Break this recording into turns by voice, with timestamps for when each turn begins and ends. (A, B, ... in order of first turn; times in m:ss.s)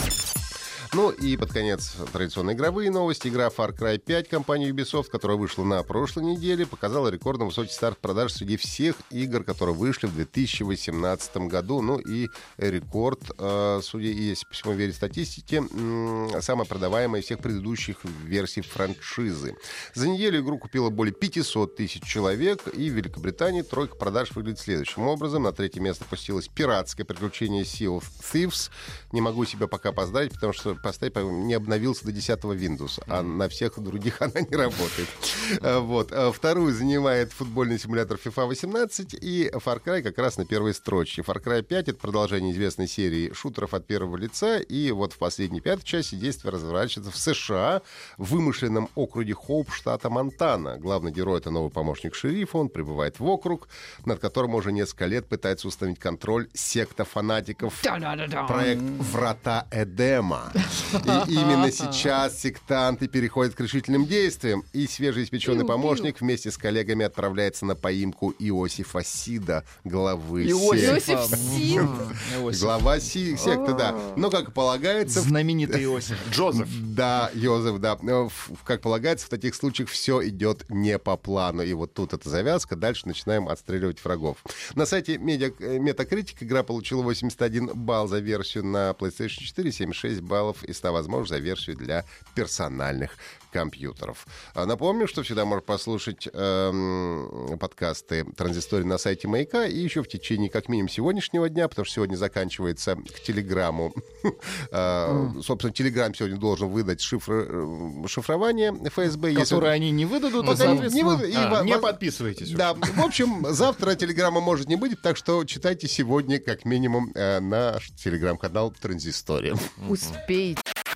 0:00.9-1:11.1 A
0:57.8-0:58.9 B
1:05.4-1:06.1 B
1:10.4-1:12.8 C
1:10.7-1:12.0 B
1:11.8-1:15.9 A
1:13.4-1:14.2 B
1:15.1-1:16.3 C
1:16.1-1:16.8 D
1:16.5-1:49.7 A
1:45.1-1:45.3 C
1:49.3-1:51.7 C
1:50.4-1:53.2 D
1:50.4-1:59.8 A
1:59.8-2:00.2 D
1:59.9-2:00.6 B